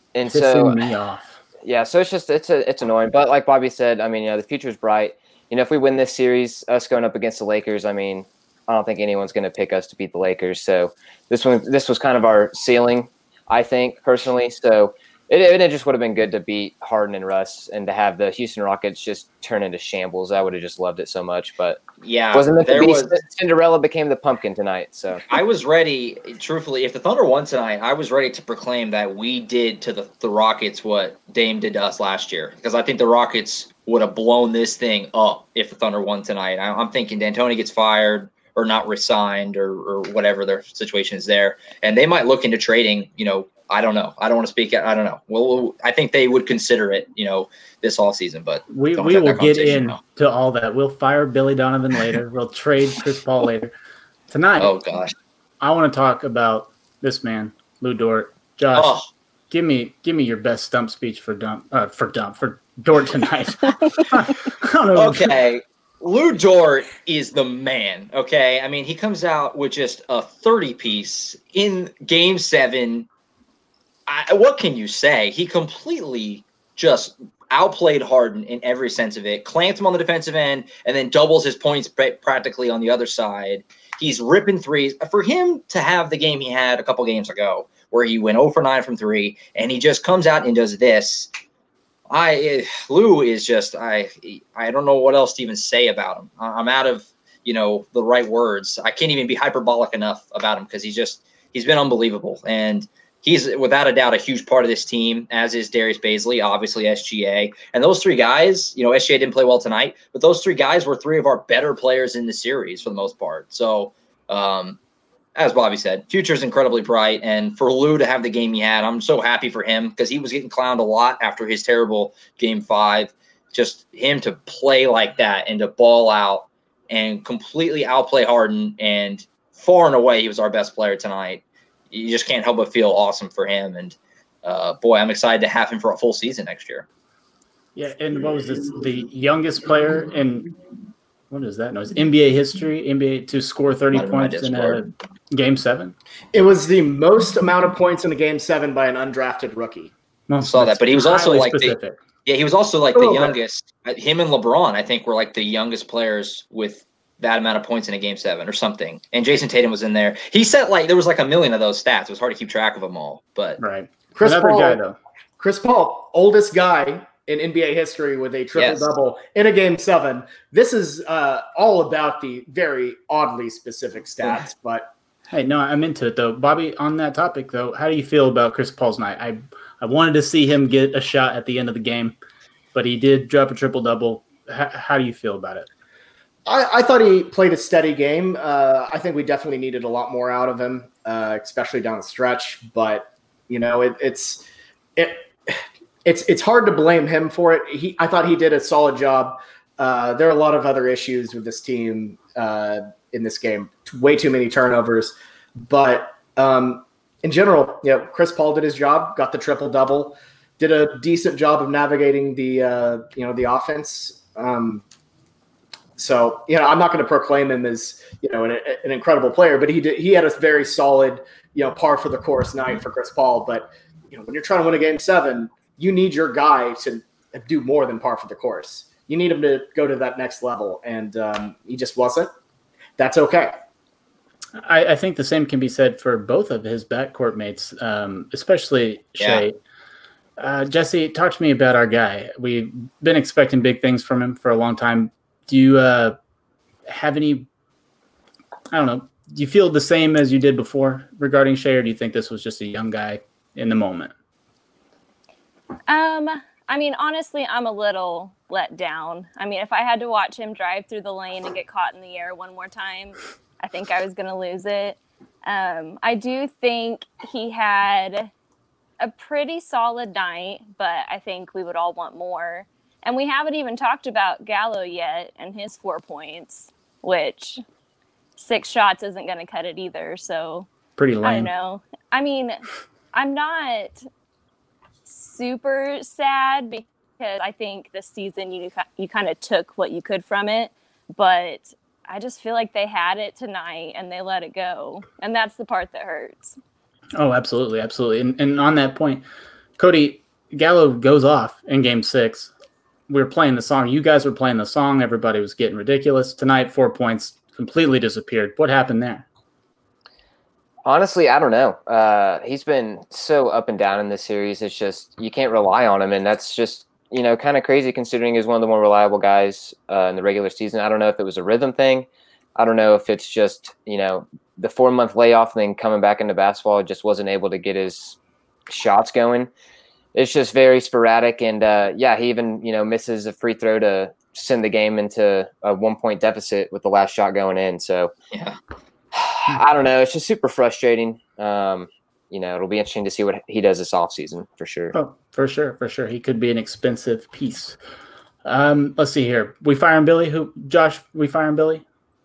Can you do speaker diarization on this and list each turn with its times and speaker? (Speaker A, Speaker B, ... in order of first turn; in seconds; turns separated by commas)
Speaker A: 0.1-0.9, Speaker B: 0.2-1.4, Speaker A: 1.6-25.2, Speaker C: 22.0-23.2, Speaker C: 25.3-50.0, Speaker B: 48.7-53.7, Speaker B: 54.3-54.8, Speaker C: 54.6-55.1, Speaker B: 55.6-59.0, Speaker C: 58.7-59.1, Speaker B: 59.5-65.4, Speaker C: 65.0-73.1, Speaker C: 74.1-91.3, Speaker C: 92.1-114.8, Speaker C: 115.4-136.9, Speaker B: 137.8-140.5, Speaker B: 141.3-145.9, Speaker C: 143.9-144.8, Speaker D: 146.3-149.9, Speaker B: 150.3-152.0, Speaker C: 150.4-163.6, Speaker D: 152.9-153.4, Speaker B: 163.6-165.0, Speaker D: 164.2-164.8, Speaker D: 165.4-174.9, Speaker C: 168.6-168.9, Speaker B: 175.3-182.2, Speaker B: 182.7-185.7, Speaker D: 186.5-194.4, Speaker D: 195.0-214.8, Speaker D: 216.0-232.3, Speaker D: 233.0-233.6, Speaker B: 234.6-239.6, Speaker B: 240.4-246.2, Speaker B: 246.9-247.5, Speaker B: 248.7-254.1, Speaker E: 255.9-268.3, Speaker E: 269.0-277.6, Speaker E: 278.4-280.7, Speaker B: 281.0-281.5, Speaker E: 281.2-282.6, Speaker E: 283.1-284.0, Speaker E: 285.1-296.6, Speaker B: 297.2-299.2, Speaker B: 299.8-302.5, Speaker B: 303.1-309.3, Speaker A: 310.9-328.2, Speaker A: 328.7-329.5, Speaker A: 330.1-338.1, Speaker C: 338.3-338.6, Speaker A: 339.1-344.9, Speaker B: 344.9-347.8, Speaker B: 348.4-351.8